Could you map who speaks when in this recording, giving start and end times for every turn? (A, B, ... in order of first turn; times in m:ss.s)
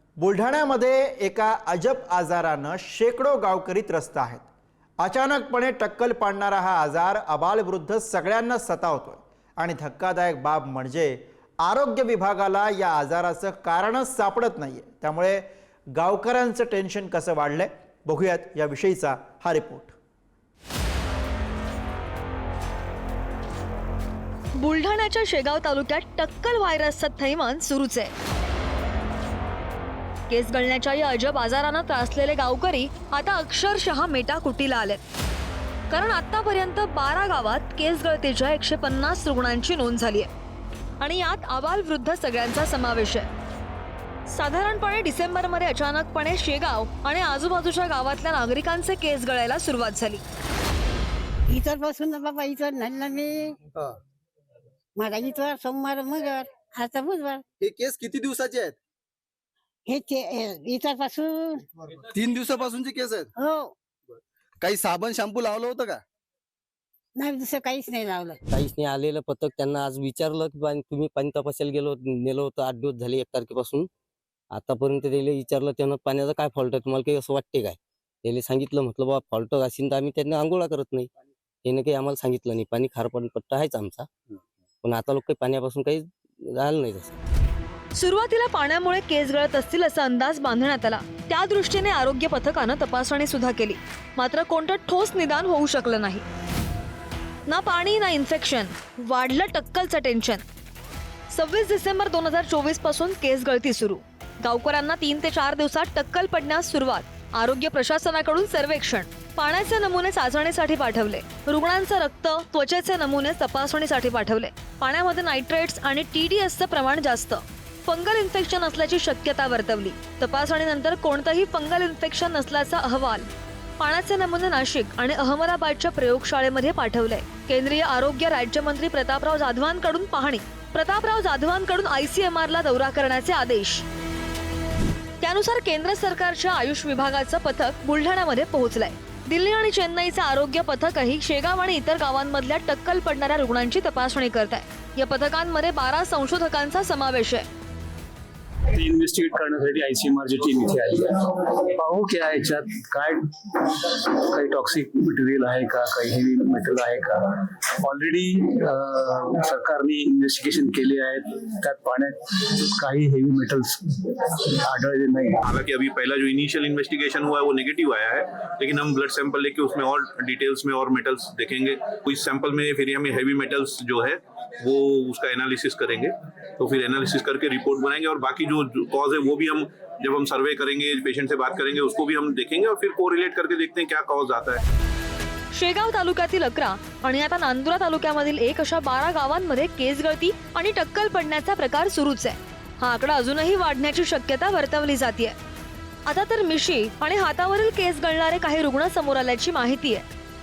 0:00.2-0:04.5 A
0:05.0-0:15.4 A
0:16.0-0:20.0 A
0:24.6-0:28.1 B
0:30.3-0:35.0 B
0:35.9-0:40.3 B
0:41.0-0:43.3 B
0:44.3-0:50.2 B
0:51.5-0:53.6 C
0:55.0-0:57.4 C
0:57.6-0:58.8 D
0:59.9-1:01.6 C
1:02.1-1:03.3 D
1:03.4-1:03.7 C
1:04.6-1:06.0 D
1:07.2-1:08.4 C
1:08.5-1:13.9 E
1:14.5-1:21.1 E
1:21.6-1:24.1 E
1:24.8-1:27.1 E
1:28.0-1:36.2 B
1:37.5-1:40.4 B
1:41.3-2:03.3 B
2:03.8-2:13.8 B
2:15.2-2:27.5 B
2:28.7-2:45.4 F
2:45.4-3:04.6 G
3:05.5-3:15.4 B
3:16.1-3:20.0 B